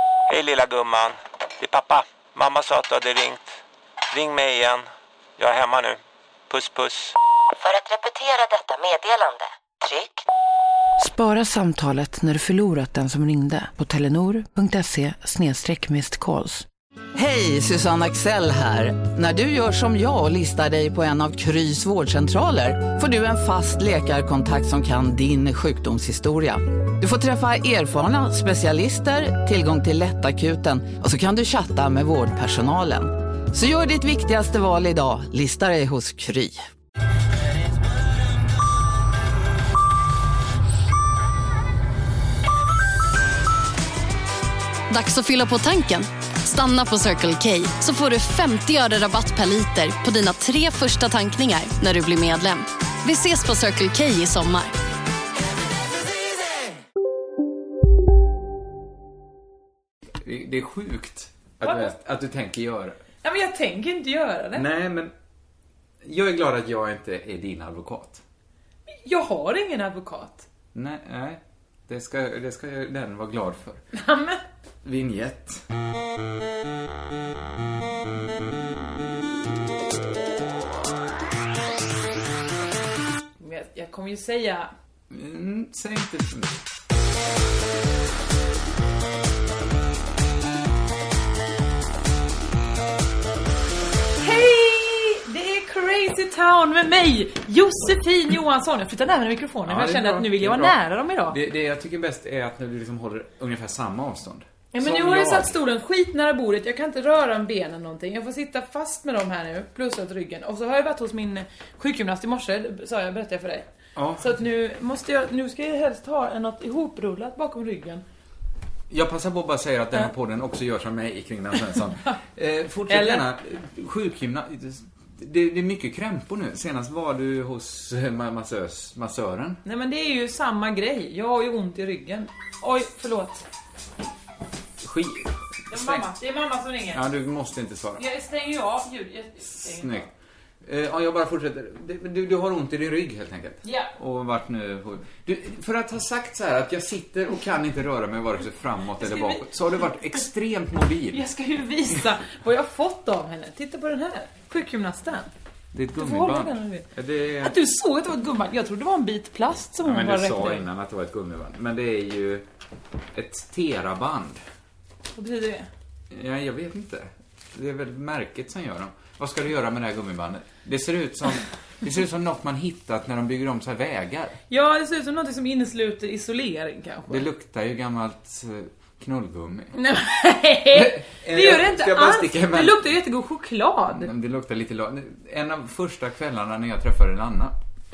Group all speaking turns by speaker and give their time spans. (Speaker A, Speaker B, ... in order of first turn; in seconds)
Speaker A: 0.3-3.6, 4.1-6.0, 6.5-7.2
Speaker B: 7.6-10.2
Speaker C: 11.0-16.6
Speaker D: 17.1-36.6
Speaker E: 44.9-54.7
Speaker F: 60.2-63.0, 64.5-65.1, 66.0-68.2, 70.7-73.8, 74.8-75.6, 85.1-86.5, 99.7-105.5, 114.0-114.3, 118.9-129.6, 134.8-136.1, 136.9-138.0, 139.5-140.1, 140.6-151.2, 155.7-157.6, 159.8-162.4, 163.1-164.4, 166.1-174.4, 177.1-179.7, 180.7-182.8, 183.9-187.5
Speaker G: 61.6-61.9, 63.2-64.7, 68.9-70.5, 73.9-74.4, 83.4-84.7, 94.2-101.4, 104.7-113.7, 114.2-118.0, 121.7-122.2, 122.9-123.2, 129.6-133.4, 135.7-137.0, 138.0-140.1, 143.6-143.9, 149.0-149.5, 151.1-155.3, 155.9-156.8, 157.4-160.7, 165.1-165.7, 174.5-177.2, 179.7-184.1